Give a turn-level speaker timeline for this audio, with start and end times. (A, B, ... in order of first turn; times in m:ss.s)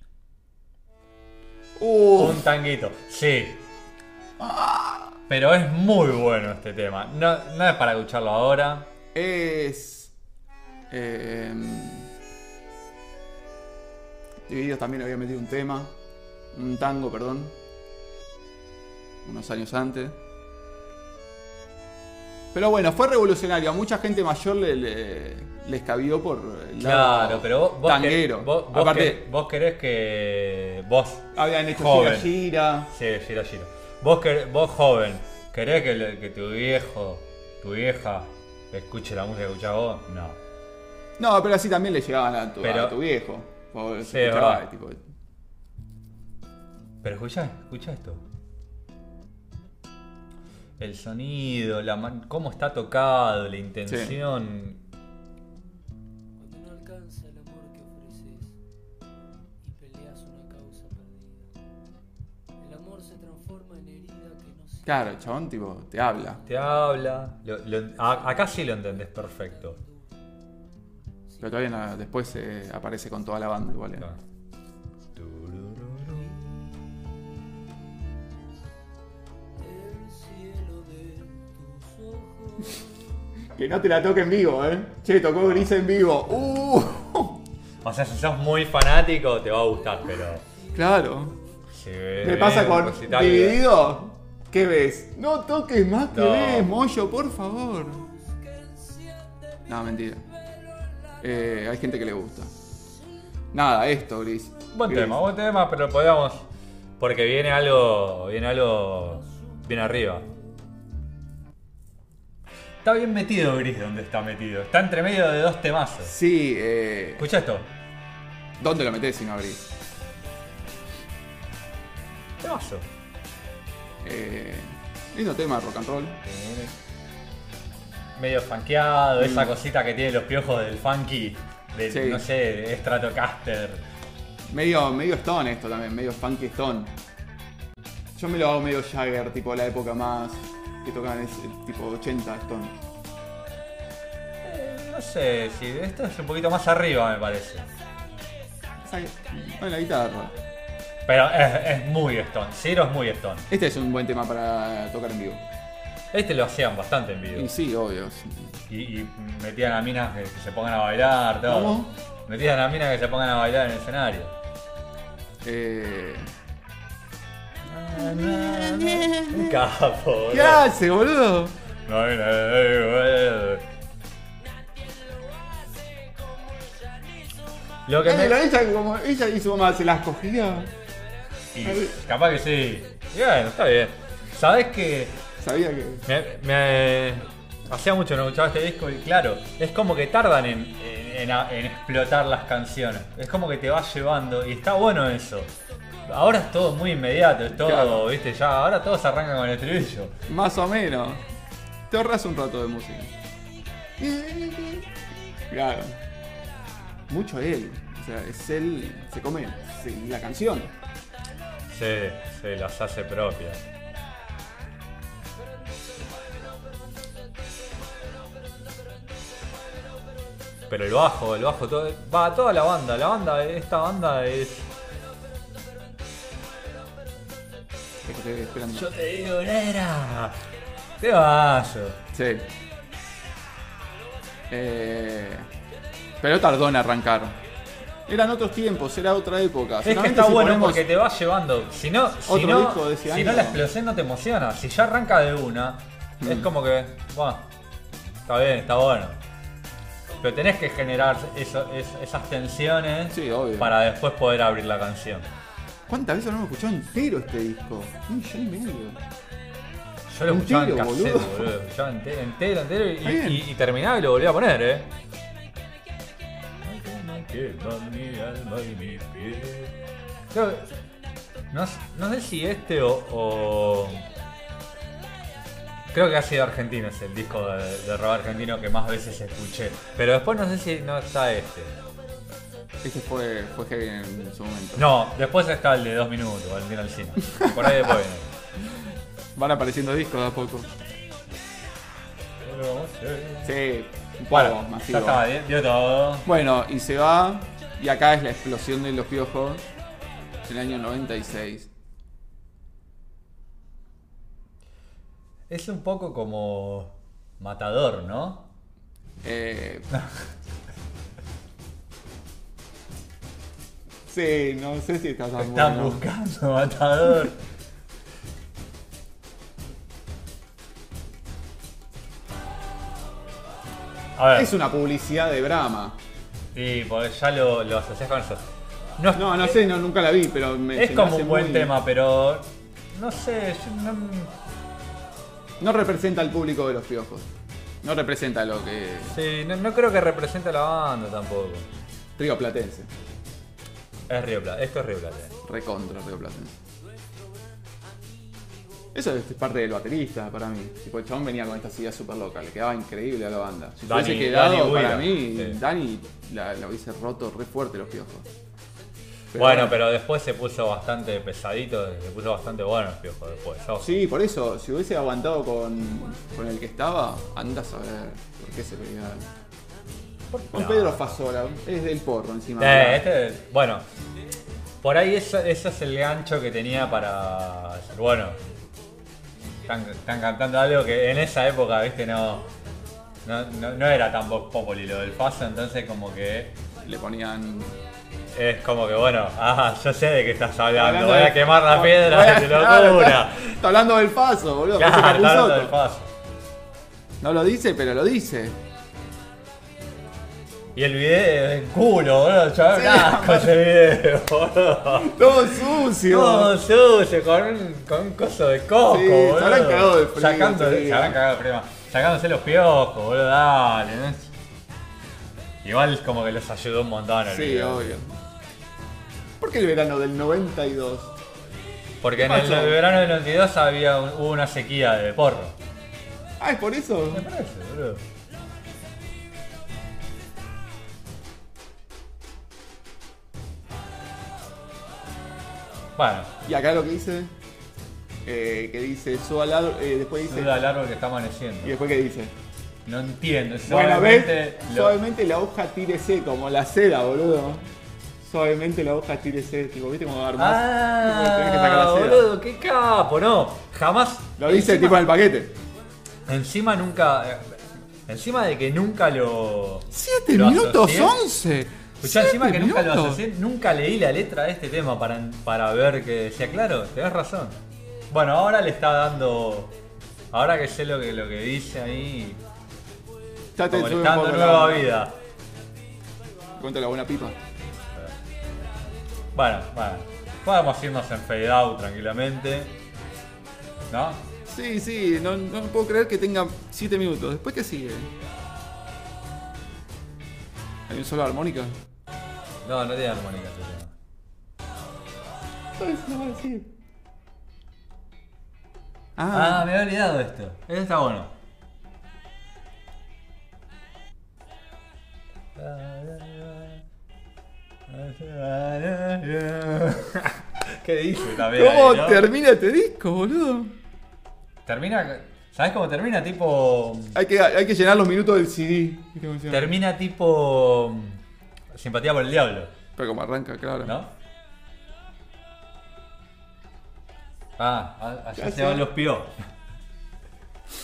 0:01.8-0:02.4 A
0:02.2-0:03.6 B
0:04.4-0:05.2 A
0:05.3-0:08.9 B
0:09.1-0:10.1 A
0:10.9-0:12.1 A
0:14.5-0:15.9 A
0:16.5-0:17.5 A
0:19.2-0:20.2 A
0:22.5-0:29.2 A
0:26.8-0:32.3 B
0:31.3-0:32.9 A
0:32.9-0:40.4 B
0:41.2-0:45.0 A
0:42.6-0:43.0 B
0:44.0-0:44.6 B
0:47.0-0:48.2 B
0:50.8-0:54.8 B
0:53.9-0:54.1 A
0:56.4-0:58.6 C
0:59.6-1:01.5 C
1:02.6-1:05.1 C
1:04.8-1:06.4 A
1:06.4-1:09.8 B
1:09.4-1:09.9 C
1:11.3-1:11.7 C
1:11.4-1:14.1 A
1:15.2-1:16.4 B
1:19.6-1:22.7 C
1:23.5-1:27.4 A
1:27.8-1:30.4 B
1:30.7-1:31.4 A
1:31.7-1:33.7 B
1:32.2-1:38.1 A
1:36.1-1:36.7 B
1:39.7-1:40.3 A
1:41.2-1:42.5 A
1:43.5-1:45.2 A
1:44.7-1:46.5 B
1:47.0-1:50.2 B
1:52.8-1:56.1 B
1:56.0-1:57.2 A
1:57.2-1:57.7 B
1:58.6-1:59.7 A
2:02.4-2:02.9 B
2:04.0-2:06.2 A
2:06.2-2:06.7 B
2:08.1-2:13.8 B
2:09.2-2:09.5 A
2:11.9-2:12.2 A
2:14.5-2:16.9 A
2:18.2-2:22.8 A
2:24.4-2:27.7 B
2:28.8-2:30.3 A
2:31.0-2:33.5 B
2:33.5-2:35.4 A
2:36.1-2:37.5 B
2:37.3-2:38.5 A
2:38.7-2:44.4 B
2:41.5-2:41.9 A
2:45.4-2:46.3 A
2:47.6-2:50.7 B
2:48.0-2:49.6 A
2:50.3-2:51.6 A
2:51.9-2:53.7 B
2:54.9-2:57.0 C
2:57.9-2:58.4 B
2:58.0-3:00.7 A
3:01.5-3:05.2 B
3:01.6-3:02.0 A
3:05.4-3:06.0 A
3:06.0-3:15.5 B
3:16.0-3:20.1 B
3:17.6-3:18.0 A
3:20.3-3:21.2 A
3:21.9-3:23.1 A
3:24.0-3:24.9 A
3:25.5-3:26.0 A
3:27.1-3:30.7 A
3:31.7-3:33.6 B
3:40.7-3:44.7 B
3:48.0-3:48.9 A
3:48.7-3:50.4 B
3:51.0-3:52.0 B
3:52.1-3:52.4 A
3:54.5-3:55.5 A
3:56.2-3:57.4 A
3:58.1-4:00.8 A
3:59.8-4:07.4 B
4:02.2-4:03.6 A
4:06.2-4:06.5 A
4:08.2-4:09.2 B
4:10.2-4:15.3 B
4:13.1-4:13.7 A
4:15.9-4:19.0 A
4:20.1-4:24.9 B
4:20.3-4:21.5 A
4:23.0-4:23.4 A
4:26.6-4:29.8 B
4:30.3-4:30.7 B
4:31.5-4:34.1 B
4:35.9-4:41.8 B
4:42.8-4:44.9 A
4:44.8-4:48.3 B
4:47.4-4:47.7 A
4:49.4-4:50.7 A
4:52.4-4:53.5 B
4:53.4-4:55.2 A
4:54.3-4:56.3 B
4:56.2-4:59.6 A
5:00.5-5:01.7 A
5:05.5-5:08.5 B
5:09.2-5:09.9 A
5:14.0-5:16.0 A
5:15.4-5:17.4 B
5:24.2-5:24.5 B
5:24.3-5:26.0 A
5:26.5-5:28.4 B
5:29.0-5:29.5 B
5:29.1-5:31.7 A
5:30.7-5:34.3 B
5:35.6-5:37.3 A
5:37.8-5:39.2 A
5:39.1-5:41.7 B
5:42.2-5:42.9 A
5:44.1-5:45.4 B
5:45.4-5:46.5 A
5:48.9-5:58.3 A
5:53.8-5:55.6 B
5:59.3-5:59.8 A
5:59.3-6:03.9 B
6:03.8-6:09.3 A
6:10.3-6:11.2 B
6:10.5-6:13.0 A
6:12.6-6:13.8 B
6:14.8-6:18.4 B
6:19.6-6:22.5 B
6:23.2-6:26.6 B
6:26.8-6:27.8 A
6:28.3-6:33.6 B
6:30.7-6:35.8 A
6:34.8-6:36.1 B
6:37.2-6:38.6 A
6:40.7-6:54.3 B
6:42.7-6:43.6 A
6:45.0-6:46.5 A
6:48.8-6:51.2 A
6:55.6-6:58.0 B
6:57.3-6:58.1 A
6:59.4-7:01.1 A
7:02.0-7:05.6 B
7:02.2-7:02.8 A
7:06.4-7:07.3 A
7:07.1-7:08.0 B
7:16.0-7:16.3 B
7:16.4-7:17.3 A
7:18.2-7:20.5 A
7:20.3-7:21.8 B
7:21.6-7:22.3 A
7:22.8-7:25.0 B
7:23.6-7:27.7 A
7:28.2-7:32.2 A
7:30.4-7:35.1 B
7:34.4-7:35.5 A
7:36.3-7:41.2 B
7:39.9-7:43.2 A
7:42.0-7:47.6 B
7:48.1-7:49.7 B
7:50.3-7:52.4 B
7:53.6-7:55.0 A
7:53.7-7:55.2 B
7:56.6-7:57.4 A
7:57.8-7:58.1 B
7:59.3-8:02.8 B
8:03.9-8:04.2 B
8:04.4-8:08.1 A
8:10.9-8:11.8 A
8:12.6-8:13.9 B
8:15.8-8:16.7 A
8:19.2-8:19.7 A
8:19.3-8:21.3 B
8:25.6-8:26.8 B
8:27.9-8:32.3 B
8:31.4-8:33.7 A
8:34.6-8:37.2 B
8:37.1-8:39.7 A
8:39.5-8:41.2 B
8:41.7-8:42.7 B
8:43.0-8:43.9 A
8:43.8-8:44.1 B
8:47.6-8:49.3 B
8:48.4-8:48.9 A